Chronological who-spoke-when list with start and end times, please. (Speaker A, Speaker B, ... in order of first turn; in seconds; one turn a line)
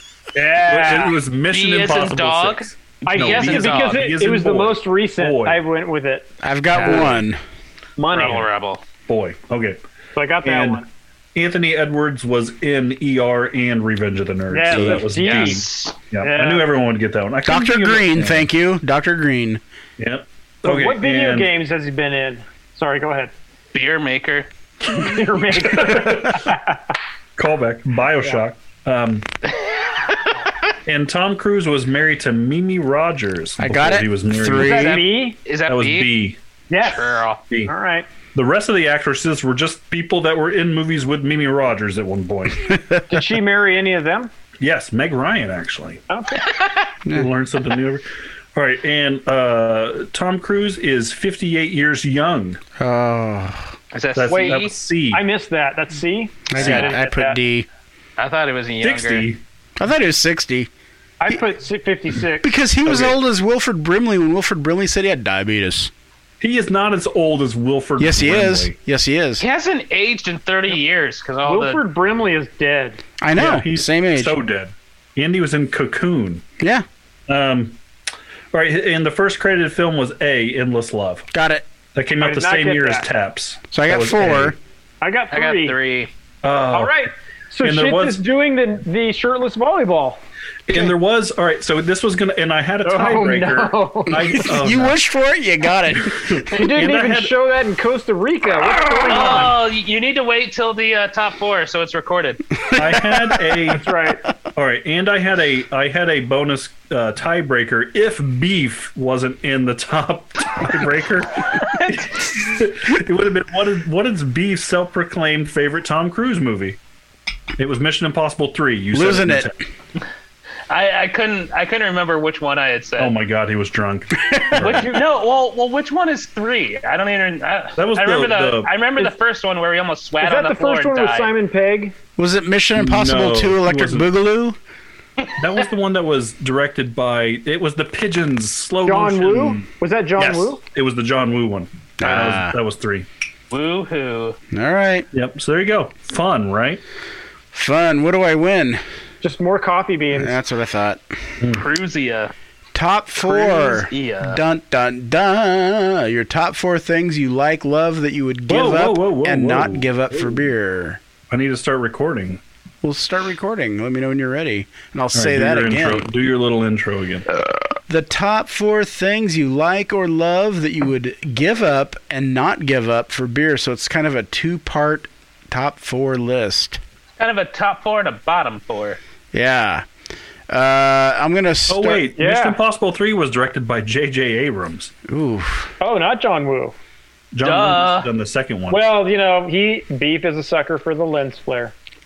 Speaker A: 0.4-4.0
Speaker B: 0.5-1.1
Speaker C: 0.7-5.6
Speaker B: 3.0-6.3
Speaker D: 6.4-7.4
Speaker A: 6.7-7.2
Speaker B: 8.0-8.5
Speaker A: 8.1-8.8
Speaker C: 9.1-9.8
Speaker B: 10.1-10.8
Speaker C: 10.4-10.8
Speaker C: 11.3-18.5
Speaker B: 14.5-15.7
Speaker D: 14.7-15.0
Speaker A: 15.2-15.9
Speaker B: 16.2-16.7
Speaker D: 17.4-19.6
Speaker C: 20.0-21.5
Speaker B: 20.6-23.3
Speaker A: 23.7-24.5
Speaker B: 24.9-26.8
Speaker C: 25.5-26.5
Speaker C: 27.4-29.3
Speaker A: 30.0-30.3
Speaker C: 30.9-35.0
Speaker D: 33.6-35.0
Speaker B: 34.5-35.4
Speaker A: 35.4-36.1
Speaker C: 35.7-36.4
Speaker B: 36.7-38.1
Speaker A: 36.8-37.4
Speaker C: 38.3-42.7
Speaker D: 42.7-43.0
Speaker B: 43.1-44.3
Speaker C: 44.6-46.0
Speaker B: 46.1-46.5
Speaker A: 46.4-46.9
Speaker C: 47.1-52.6
Speaker D: 52.8-53.7
Speaker A: 53.9-54.8
Speaker C: 54.1-55.2
Speaker B: 54.3-57.4
Speaker D: 56.5-57.7
Speaker C: 56.6-56.9
Speaker A: 58.2-59.3
Speaker C: 58.8-59.4
Speaker D: 59.8-60.7
Speaker B: 61.2-62.6
Speaker D: 62.4-65.9
Speaker C: 62.9-63.1
Speaker C: 66.4-68.7
Speaker D: 68.0-69.4
Speaker A: 69.4-71.8
Speaker B: 71.4-73.0
Speaker D: 73.2-74.3
Speaker C: 73.3-76.4
Speaker D: 76.6-76.8
Speaker C: 77.3-77.8
Speaker C: 78.5-81.3
Speaker D: 81.3-81.6
Speaker C: 81.9-84.5
Speaker B: 82.2-83.1
Speaker D: 83.7-84.6
Speaker B: 85.0-85.8
Speaker A: 85.3-86.1
Speaker C: 86.4-87.1
Speaker B: 86.7-90.2
Speaker C: 87.6-88.2
Speaker C: 90.7-95.0
Speaker B: 92.8-94.5
Speaker D: 94.2-96.5
Speaker C: 96.1-97.3
Speaker B: 96.5-99.6
Speaker A: 99.1-102.5
Speaker D: 102.7-103.6
Speaker C: 102.7-103.8
Speaker B: 103.7-104.2
Speaker C: 104.5-116.8
Speaker A: 111.6-112.1
Speaker C: 117.6-119.5
Speaker D: 118.9-119.5
Speaker A: 120.7-123.2
Speaker C: 123.0-125.0
Speaker D: 124.3-124.8
Speaker A: 124.5-131.3
Speaker C: 127.8-128.7
Speaker B: 130.2-131.9
Speaker D: 132.2-134.6
Speaker C: 132.8-134.1
Speaker C: 135.4-139.7
Speaker B: 138.8-140.6
Speaker C: 140.2-143.1
Speaker D: 142.0-142.6
Speaker A: 143.5-144.4
Speaker D: 144.5-145.1
Speaker C: 145.1-146.8
Speaker D: 147.5-148.8
Speaker B: 149.2-150.4
Speaker D: 150.1-151.0
Speaker A: 151.5-152.3
Speaker D: 152.7-161.0
Speaker A: 153.2-154.4
Speaker C: 158.5-160.4
Speaker C: 161.3-162.4
Speaker D: 162.8-166.1
Speaker C: 165.1-167.2
Speaker D: 167.9-176.8
Speaker A: 177.2-179.0
Speaker D: 179.3-179.8
Speaker D: 180.5-182.1
Speaker C: 181.7-184.9
Speaker B: 182.2-182.6
Speaker D: 185.1-185.7
Speaker B: 185.8-186.8
Speaker C: 187.3-188.9
Speaker A: 187.4-188.1
Speaker B: 188.7-191.7